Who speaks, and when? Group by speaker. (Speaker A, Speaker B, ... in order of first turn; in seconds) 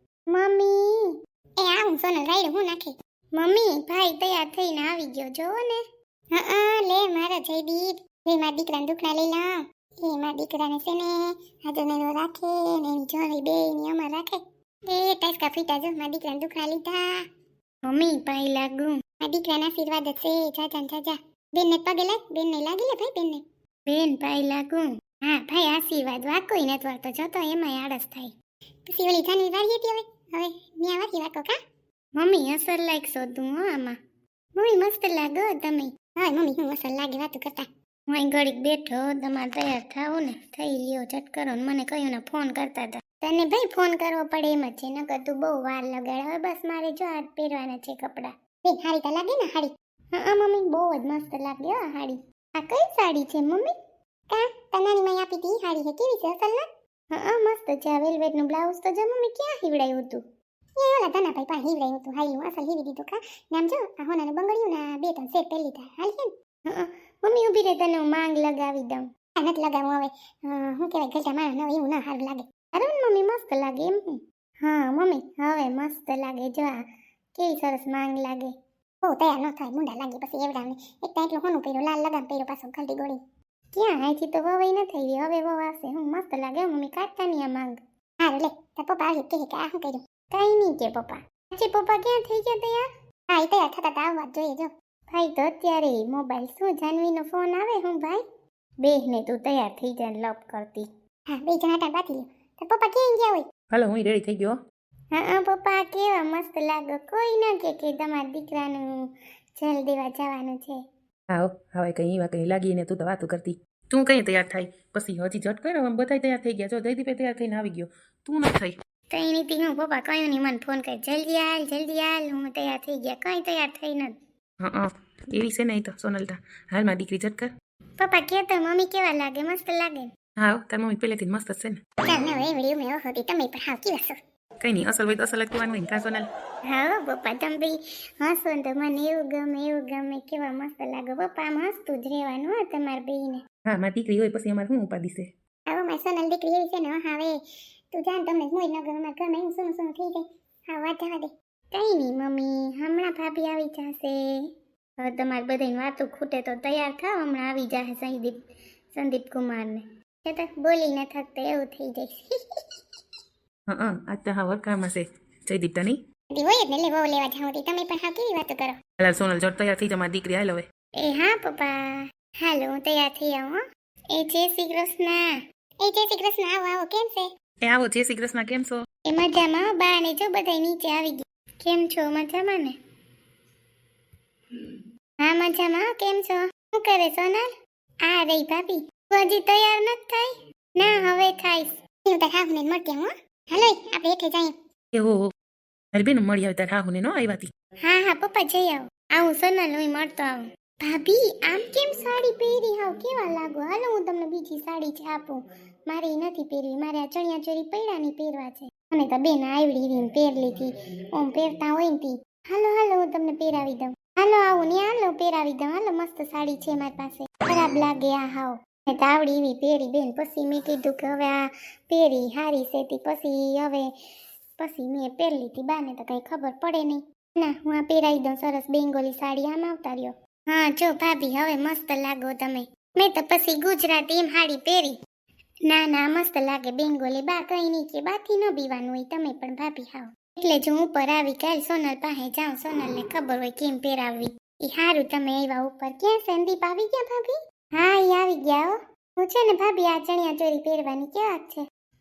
Speaker A: 0.3-5.8, 6.3-14.3, 14.9-17.1, 17.8-28.3, 28.9-31.5, 32.1-34.0, 34.5-53.7, 54.3-60.2, 60.8-78.5, 79.0-83.2, 83.7-98.2, 98.8-103.4, 105.1-110.8, 119.1-124.2, 128.0-130.1, 132.1-134.1, 136.7-143.4, 145.7-147.3, 147.9-154.4, 155.0-158.3, 158.9-162.3, 166.3-168.7, 171.0-173.6, 174.1-175.3, 175.8-177.2, 179.1-182.7, 185.2-187.4, 188.0-194.5, 197.8-223.9, 224.6-235.0, 235.7-251.6
Speaker B: 103.7-104.6, 111.3-118.8, 124.6-127.5, 130.4-131.8, 134.6-136.3, 143.7-145.3, 163.7-166.0, 169.0-170.6, 177.6-178.8, 194.9-195.2, 195.9-197.5